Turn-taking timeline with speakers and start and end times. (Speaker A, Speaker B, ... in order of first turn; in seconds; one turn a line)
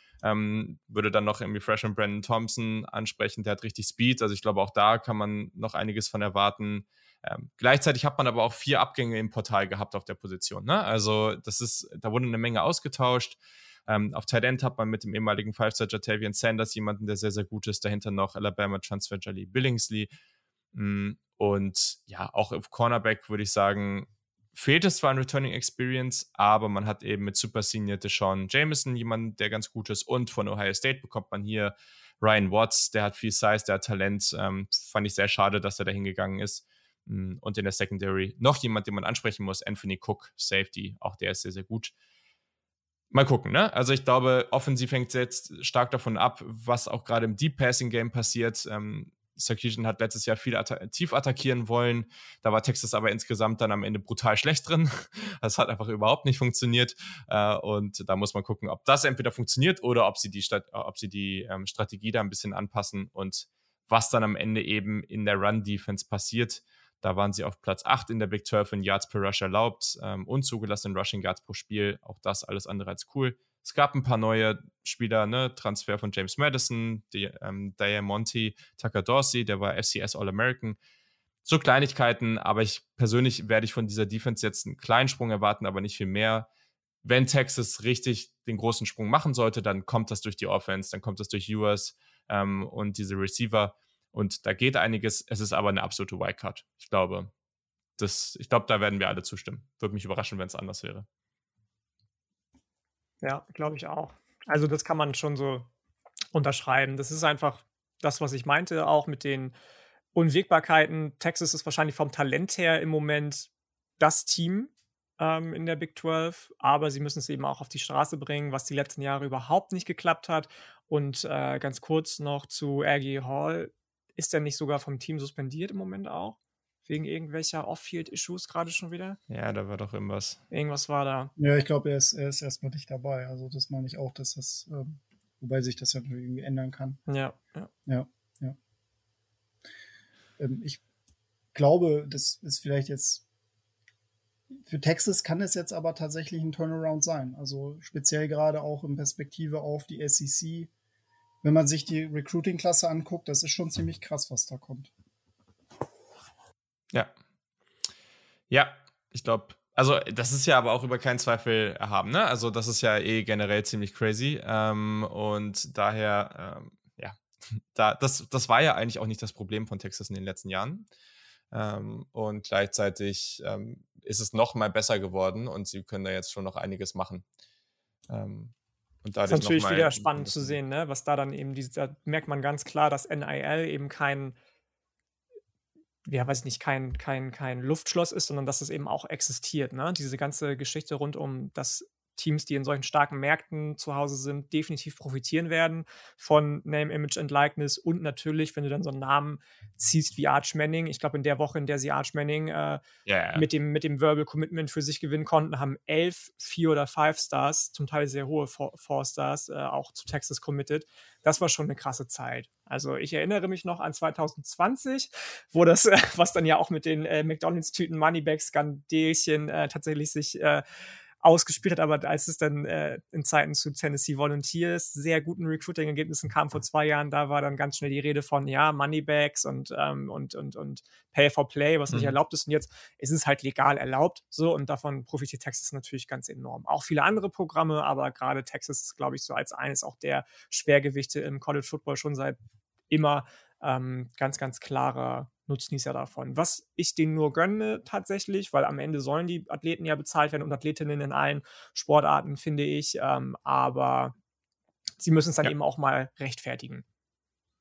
Speaker A: 0.2-20.1
Speaker A: 20.7-41.9
Speaker A: 43.1-80.8
Speaker A: 81.5-86.5
Speaker A: 87.0-97.3
Speaker A: 98.0-101.1
Speaker B: 103.2-105.7
Speaker B: 106.3-109.5
Speaker B: 110.1-129.2
Speaker A: 129.3-130.4
Speaker B: 130.5-131.3
Speaker C: 131.4-137.0
Speaker B: 137.1-137.7
Speaker C: 137.9-138.6
Speaker C: 140.4-140.8
Speaker C: 141.5-143.2
Speaker C: 144.7-150.7
Speaker C: 151.4-154.9
Speaker A: 158.5-167.2
Speaker A: 167.7-170.9
Speaker A: 171.5-177.2
Speaker A: 178.1-180.6
Speaker B: 179.3-184.4
Speaker B: 186.1-202.8
Speaker A: 203.1-203.5
Speaker B: 203.3-220.6
Speaker B: 221.2-242.4
Speaker A: 231.9-232.2
Speaker B: 242.9-254.1
Speaker B: 255.0-256.8